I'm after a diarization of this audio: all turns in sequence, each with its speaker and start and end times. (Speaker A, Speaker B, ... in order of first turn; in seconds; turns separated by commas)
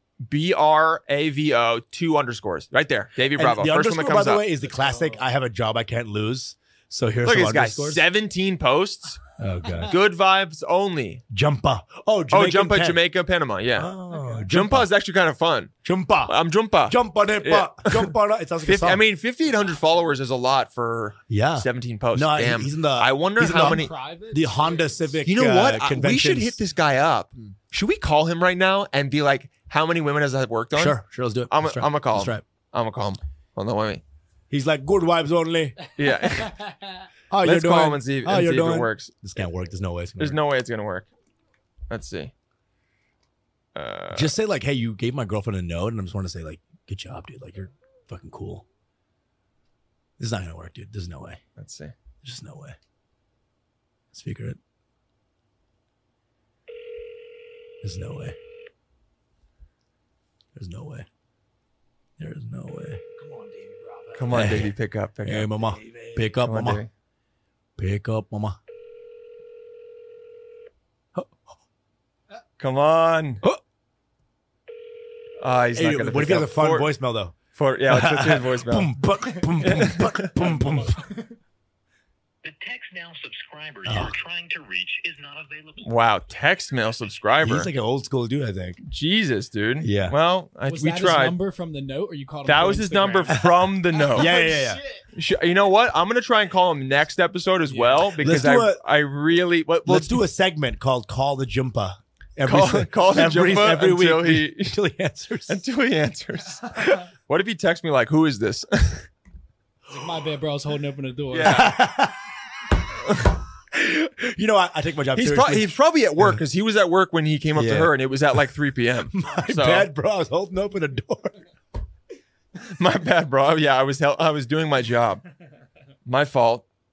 Speaker A: 0.3-4.4, Speaker B: 3.4-8.0, Speaker C: 4.7-5.2, Speaker A: 7.2-9.2, Speaker B: 9.4-9.9, Speaker A: 9.9-11.2, Speaker B: 11.3-13.0, Speaker A: 12.3-13.9, Speaker B: 13.8-14.9, Speaker A: 14.5-15.7, Speaker B: 15.8-19.0, Speaker A: 16.3-23.9, Speaker B: 21.3-26.6, Speaker C: 23.5-25.2, Speaker A: 25.2-34.0, Speaker B: 30.7-32.4, Speaker B: 34.5-35.8, Speaker A: 36.0-36.5, Speaker C: 36.4-36.8, Speaker B: 37.3-40.4, Speaker A: 37.4-39.2, Speaker A: 40.2-41.1, Speaker A: 41.9-42.3, Speaker A: 43.8-44.4, Speaker B: 44.1-48.6, Speaker B: 50.2-51.4, Speaker A: 51.6-51.9, Speaker B: 52.2-52.8, Speaker B: 54.1-54.6, Speaker B: 57.8-58.4, Speaker B: 60.5-61.1, Speaker B: 62.2-63.0, Speaker C: 63.1-64.5, Speaker A: 64.2-65.5, Speaker B: 64.3-64.7, Speaker B: 65.2-66.8, Speaker C: 65.6-66.2, Speaker A: 66.4-66.9, Speaker B: 67.8-68.6, Speaker A: 72.6-73.4, Speaker A: 75.4-76.9, Speaker B: 75.8-77.3, Speaker A: 77.5-79.0, Speaker B: 77.9-81.0, Speaker A: 79.6-80.3, Speaker C: 80.4-81.3, Speaker D: 82.4-85.9, Speaker B: 83.8-84.2, Speaker A: 85.8-87.7, Speaker B: 87.4-88.8, Speaker A: 88.8-91.4, Speaker B: 89.8-90.2, Speaker C: 90.7-93.5, Speaker A: 92.5-94.3, Speaker C: 94.0-95.0, Speaker B: 94.1-94.8, Speaker A: 95.2-100.2, Speaker C: 97.7-98.0, Speaker B: 98.2-98.8, Speaker B: 99.9-105.6, Speaker A: 102.5-104.8, Speaker A: 105.5-109.1, Speaker C: 109.9-111.8, Speaker A: 111.3-111.8, Speaker B: 111.4-112.2, Speaker B: 113.7-116.4, Speaker A: 115.2-119.9, Speaker B: 117.5-117.9, Speaker B: 119.1-121.3, Speaker A: 122.6-125.2, Speaker A: 126.1-126.7